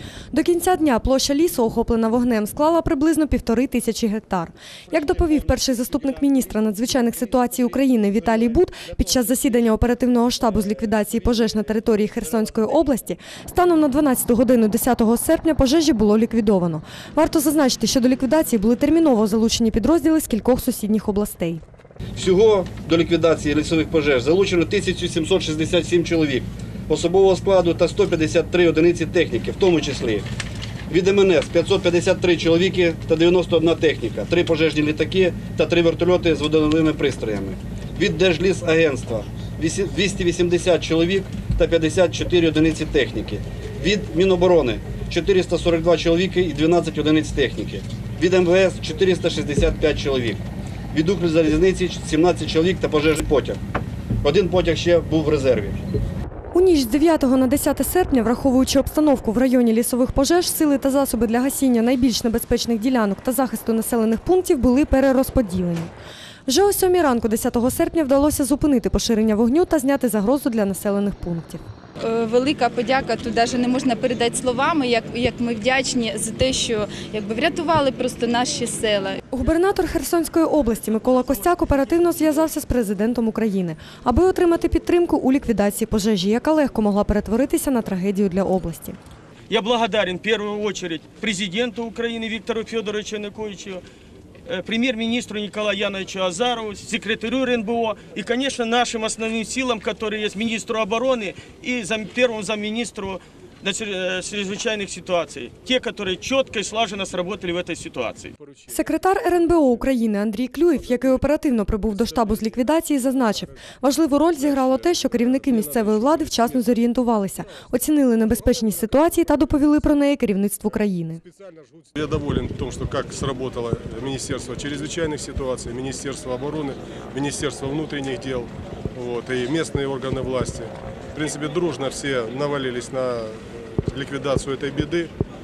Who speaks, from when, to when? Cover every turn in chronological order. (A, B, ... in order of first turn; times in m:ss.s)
0:00.3-0:21.6 A
0:22.2-0:30.2 B
0:30.9-0:53.6 B
0:54.2-0:55.8 B
0:56.5-1:05.9 A
1:06.5-1:11.6 A
1:12.0-1:19.2 C
1:19.3-1:29.0 A
1:29.5-1:33.8 D
1:34.4-1:48.3 D
1:48.7-2:01.2 A
1:52.0-1:52.6 E
1:54.4-1:56.6 E
2:01.3-2:15.1 E